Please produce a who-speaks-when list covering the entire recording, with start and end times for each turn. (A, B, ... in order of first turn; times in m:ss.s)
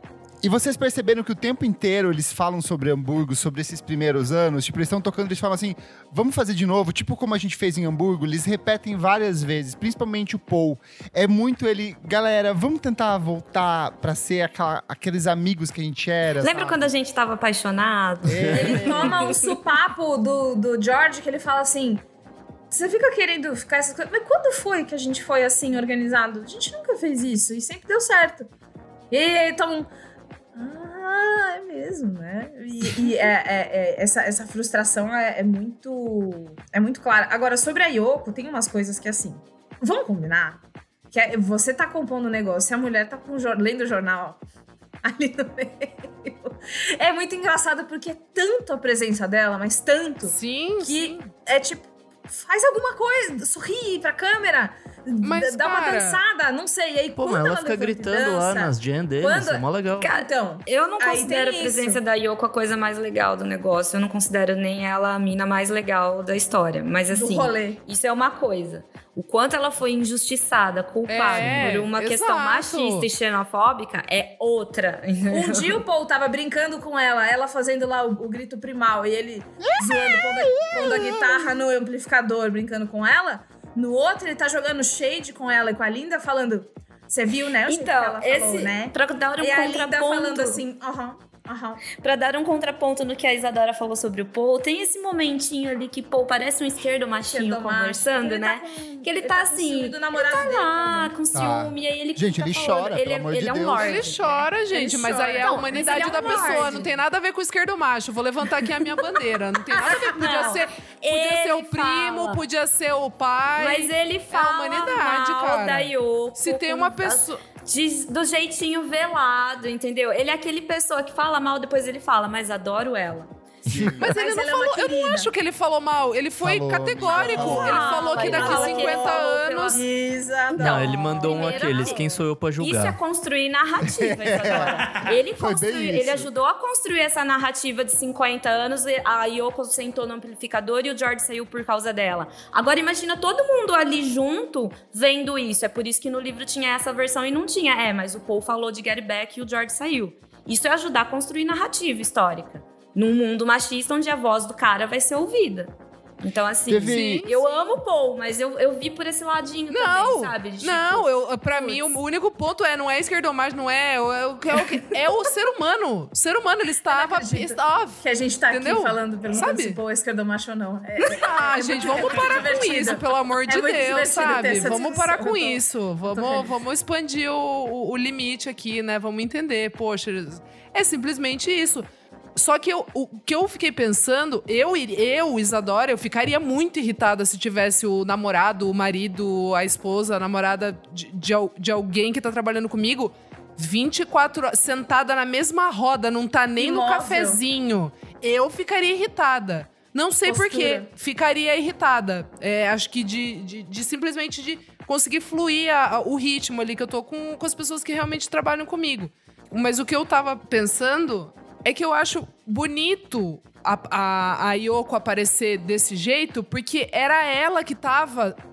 0:00.4-0:16.9 A
0:16.4-0:19.5 B
0:18.2-0:19.2 A
0:18.5-0:22.0 C
0:22.7-0:28.5 C
0:29.1-0:29.9 C
0:30.5-0:40.6 C
0:41.1-0:44.4 C
0:45.0-1:02.0 C
0:50.2-0:51.3 D
0:55.2-0:56.2 D
0:57.2-1:00.1 E
1:00.0-1:15.8 B
1:07.1-1:07.8 C
1:11.1-1:13.1 D
1:11.4-1:11.7 A
1:15.3-1:31.8 C
1:19.7-1:21.4 A
1:27.7-1:30.6 B
1:31.9-1:44.4 B
1:37.3-1:41.1 C
1:41.3-1:43.9 A
1:43.8-1:57.4 D
1:44.7-1:47.0 C
1:45.4-1:46.9 B
1:49.7-1:50.6 C
1:49.8-1:52.4 B
1:53.6-2:03.3 B
2:03.6-2:04.1 A
2:04.0-2:09.8 D
2:04.0-2:05.3 C
2:06.4-2:07.7 A
2:07.1-2:09.8 B
2:07.2-2:09.1 C
2:09.7-2:12.2 C
2:10.5-2:12.1 B
2:10.5-2:13.0 E
2:12.6-2:42.0 B
2:13.8-2:16.3 A
2:36.7-2:37.2 A
2:36.8-2:37.7 D
2:39.7-2:49.8 D
2:46.9-2:56.5 C
2:51.1-3:38.4 D
3:16.6-3:17.4 C
3:20.2-3:20.9 C